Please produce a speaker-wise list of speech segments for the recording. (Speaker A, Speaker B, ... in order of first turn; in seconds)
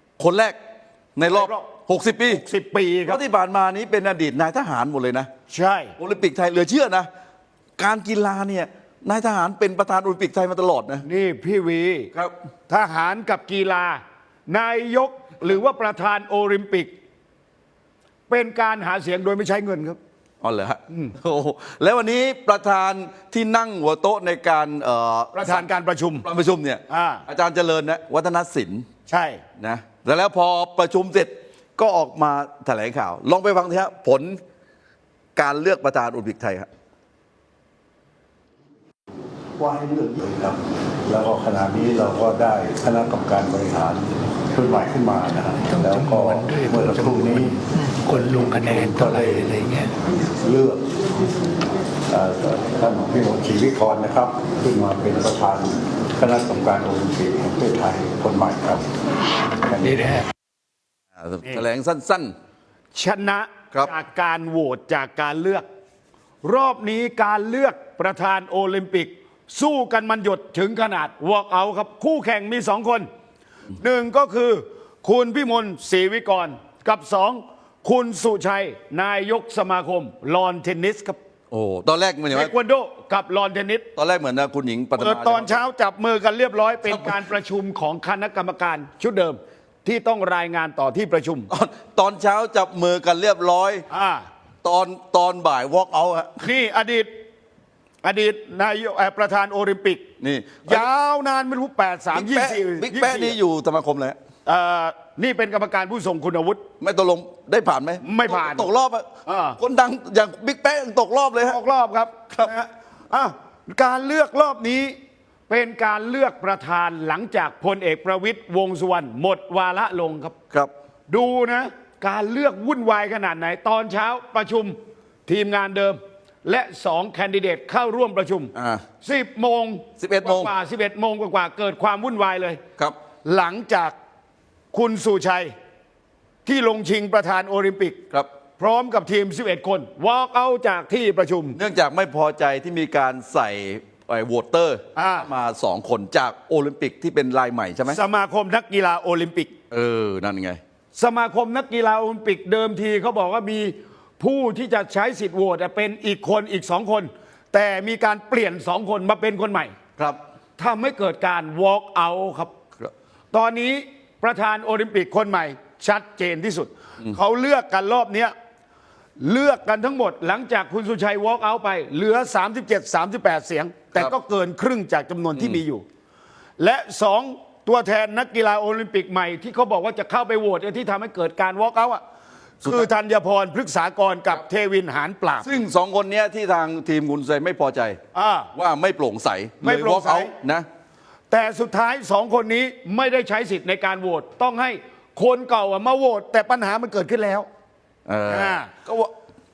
Speaker A: 0.2-0.6, 1.1-2.4, 3.1-5.3, 6.0-7.1, 7.8-11.0, 20.4-25.6, 26.2-28.9, 29.6-34.4, 35.4-36.7, 61.2-62.3, 81.5-82.5, 83.9-85.6, 86.8-87.2, 91.5-93.8, 94.6-96.4, 100.2-100.9, 102.1-104.2, 106.8-109.1, 109.6-111.6, 128.5-128.8, 130.0-130.5, 141.5-148.0, 149.7-150.6, 175.3-175.6, 185.4-188.0, 188.5-190.7, 198.1-199.1
Speaker B: 1.3-1.7, 2.3-3.2, 5.5-5.9, 11.0-12.1, 12.7-16.9, 18.3-20.0, 25.3-26.2, 26.9-27.2, 29.1-29.4, 62.9-65.7, 66.4-73.1, 73.8-81.2, 82.3-83.9, 85.0-91.5, 93.9-94.2, 96.4-97.1, 98.0-100.0, 100.7-103.4, 104.5-106.6, 108.0-108.7, 109.2-109.6, 111.5-115.0, 115.5-120.3, 121.1-132.6, 133.2-133.9, 134.7-135.5, 136.4-138.0, 138.6-141.6, 144.9-145.3, 147.9-149.5, 150.9-159.8, 160.6-162.5, 163.3-168.3, 169.2-175.8, 176.6-182.0, 182.6-185.5, 188.1-188.5, 189.6-190.3, 191.3-197.5, 198.3-198.7
Speaker C: 39.6-47.6, 48.4-49.5, 50.4-50.8, 52.1-58.8, 59.6-60.2
Speaker D: 45.7-49.9